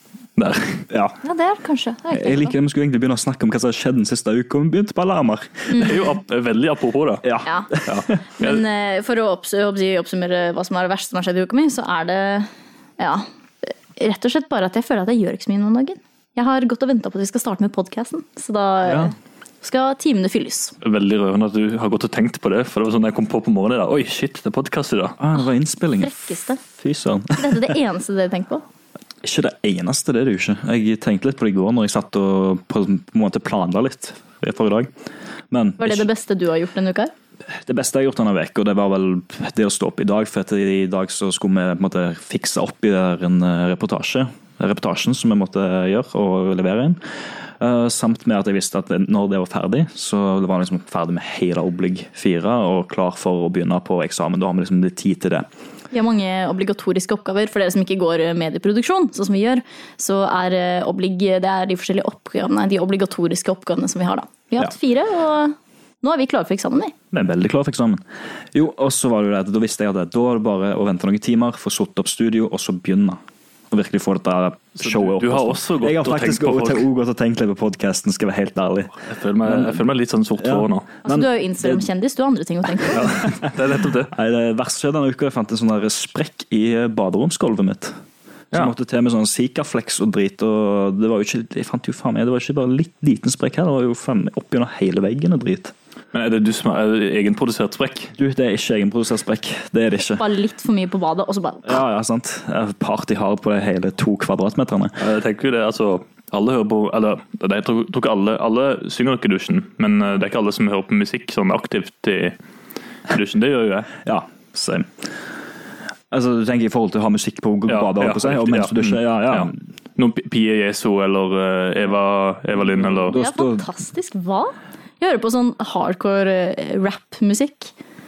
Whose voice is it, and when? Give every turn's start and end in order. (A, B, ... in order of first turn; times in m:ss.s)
0:00.4-0:00.9 A
0:00.9-0:01.2 B
0:01.2-0:02.5 C
0:02.1-0:05.7 B
0:05.7-0:06.1 C
0:05.8-0:07.3 A
0:07.2-0:08.2 B
0:07.4-0:07.7 C
0:07.9-0:08.6 A
0:08.3-0:20.8 C
0:18.8-0:19.1 B
0:20.8-0:25.2 A
0:25.2-0:27.7 B
0:26.0-0:26.6 C
0:27.4-0:28.6 C
0:29.2-0:34.9 B
0:35.5-0:36.1 B
0:35.8-0:37.1 C
0:37.5-0:47.0 B
0:47.6-0:55.5 B
0:55.9-1:06.9 C
1:07.1-1:08.0 B
1:08.5-1:13.2 B
1:13.7-1:19.8 B
1:14.8-1:16.9 A
1:19.0-1:20.9 A
1:20.4-1:21.8 B
1:21.0-1:23.2 C
1:22.9-1:23.5 B
1:22.9-1:24.1 A
1:24.1-1:28.0 B
1:28.5-1:35.7 B
1:36.1-1:38.1 A
1:38.2-1:40.2 B
1:40.2-1:41.8 C
1:41.7-1:45.0 B
1:45.0-1:52.4 A
1:53.1-1:53.9 A
1:54.0-1:54.9 B
1:56.1-1:59.6 B
1:57.7-2:03.2 A
2:02.9-2:03.7 B
2:03.1-2:07.7 C